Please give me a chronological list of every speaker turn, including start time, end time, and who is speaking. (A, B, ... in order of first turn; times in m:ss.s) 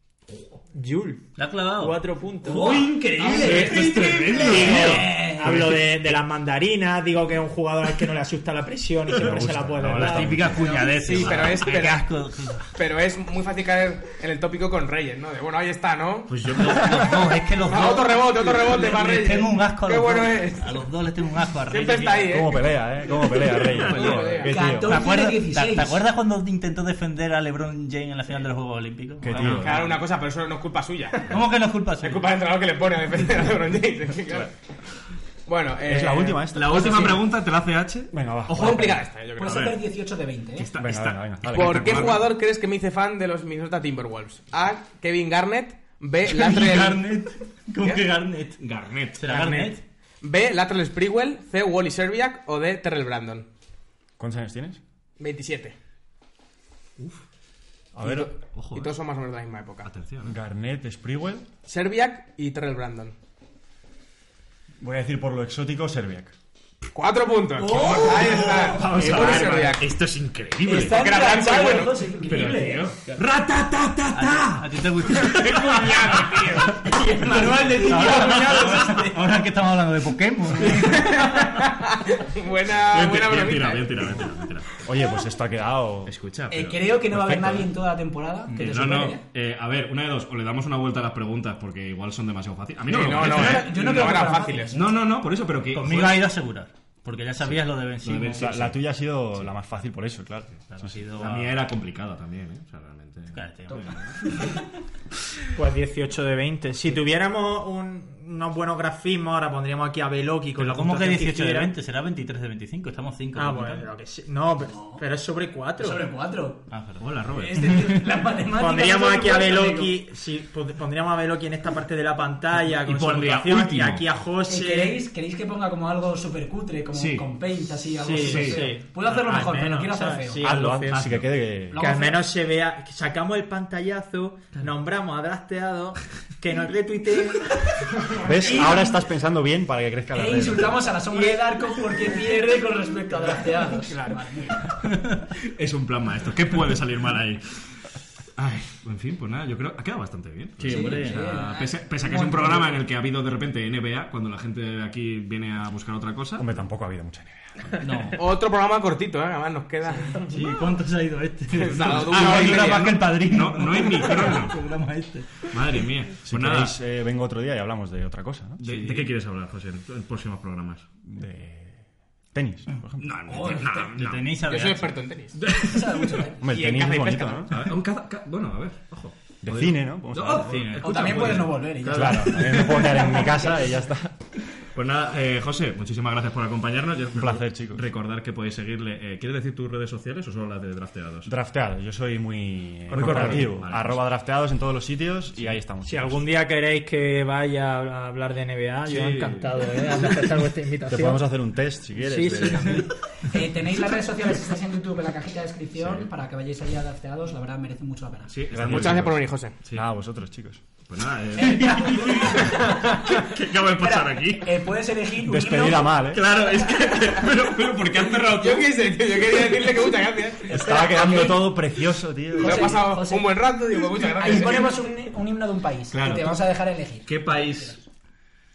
0:00.7-0:02.8 A
0:01.4-0:02.0 B
0:02.5-0:05.2 C
0:02.6-0:05.6 D
0:02.7-0:04.6 E
0:03.4-0:10.4 A
0:05.4-0:05.8 F
0:09.1-0:10.6 F
0:09.8-0:12.7 B
0:10.6-0:12.1 E
0:12.8-0:17.0 E
0:16.3-0:22.4 B
0:16.4-0:16.7 C
0:17.6-0:20.8 E
0:21.7-0:22.7 E
0:22.2-0:25.0 F
0:23.7-0:24.4 C
0:23.7-0:24.6 E
0:24.4-0:26.0 D
0:24.8-0:30.0 B
0:29.2-0:29.8 F
0:29.4-0:31.4 E
0:31.3-0:32.3 B
0:32.0-0:34.5 E
0:35.5-0:37.2 E
0:35.8-0:37.2 F
0:36.5-0:38.8 C
0:38.1-0:39.1 F
0:38.5-0:39.8 E
0:39.4-0:40.7 D
0:40.6-0:42.3 C
0:40.8-0:42.2 F
0:41.4-0:47.1 E
0:46.2-0:48.6 B
0:48.6-0:49.2 C
0:49.2-0:49.8 B
0:49.3-0:53.5 E
0:54.2-0:54.8 F
0:55.2-0:55.8 E
0:58.0-0:58.4 F
0:58.0-0:59.9 E
0:58.5-0:58.9 C
0:59.8-1:00.3 C
1:00.2-1:01.5 F
1:01.7-1:03.2 E
1:04.8-1:06.3 F
1:06.9-1:09.9 E
1:07.6-1:09.6 D
1:07.7-1:11.2 C
1:10.6-1:12.9 D
1:10.8-1:12.1 E
1:12.2-1:15.3 C
1:14.1-1:16.2 B
1:15.2-1:17.8 E
1:16.1-1:16.4 C
1:16.8-1:19.3 D
1:17.2-1:21.4 B
1:18.3-1:18.9 C
1:20.7-1:24.2 E
1:22.9-1:24.8 C
1:24.8-1:26.2 F
1:26.1-1:27.6 C
1:26.5-1:29.2 D
1:28.6-1:36.2 C
1:32.9-1:34.7 E
1:33.1-1:35.0 D
1:35.7-1:38.5 B
1:38.0-1:38.8 C
1:38.3-1:41.1 F
1:40.7-1:41.5 B
1:41.2-1:44.4 C
1:43.3-1:44.3 B
1:45.6-1:51.7 A
1:50.6-1:53.9 B
1:53.4-1:56.1 A
1:54.6-1:55.0 D
1:55.8-1:56.7 D
1:56.7-1:57.9 B
1:57.0-1:57.8 C
1:57.3-2:00.0 D
1:58.6-2:05.0 A
2:02.7-2:04.1 C
2:04.4-2:10.5 D
2:06.9-2:07.3 C
2:08.0-2:11.1 A
2:08.2-2:08.7 C
2:10.4-2:11.8 F
2:10.9-2:11.3 C
2:11.7-2:12.3 D
2:11.8-2:17.5 A
2:18.2-2:19.0 D
2:18.2-2:20.9 F
2:20.1-2:24.8 D
2:21.1-2:21.5 A
2:25.4-2:27.7 C
2:28.4-2:36.6 C
2:30.6-2:31.2 B
2:30.6-2:32.8 D
2:36.4-2:37.8 F
2:37.8-2:38.2 B
2:38.1-2:40.3 E
2:39.9-2:40.6 D
2:40.3-2:45.8 B
2:41.5-2:43.0 E
2:42.2-2:44.6 C
2:45.5-2:46.8 C
2:46.2-2:49.0 F
2:48.6-2:50.9 C
2:51.0-2:53.6 F
2:53.0-2:54.3 C
2:53.3-2:53.9 D
2:53.9-2:55.0 B
2:54.4-2:55.4 E
2:55.4-2:56.2 C
2:55.6-2:56.5 D
2:56.4-2:57.7 F
2:56.5-2:57.5 E
2:57.5-3:02.8 C
2:59.4-3:00.8 F
3:00.4-3:01.1 B
3:00.8-3:02.4 D
3:01.9-3:04.2 F
3:03.2-3:03.5 D
3:04.7-3:11.3 C
3:07.2-3:07.9 F
3:11.2-3:16.2 F
3:12.9-3:14.0 C
3:15.8-3:21.3 A
3:18.9-3:20.0 C
3:20.8-3:22.9 F
3:22.0-3:22.9 A
3:23.2-3:28.4 D
3:25.8-3:26.0 C
3:28.3-3:29.9 C
3:28.5-3:30.6 F
3:28.7-3:29.6 E
3:30.8-3:34.6 C
3:31.4-3:37.0 D
3:35.2-3:36.4 F
3:36.1-3:38.7 C
3:38.3-3:41.3 E
3:40.5-3:42.8 F
3:40.5-3:41.3 D
3:42.4-3:47.1 D
3:42.4-3:44.8 E
3:45.9-3:46.4 C
3:47.0-3:47.8 C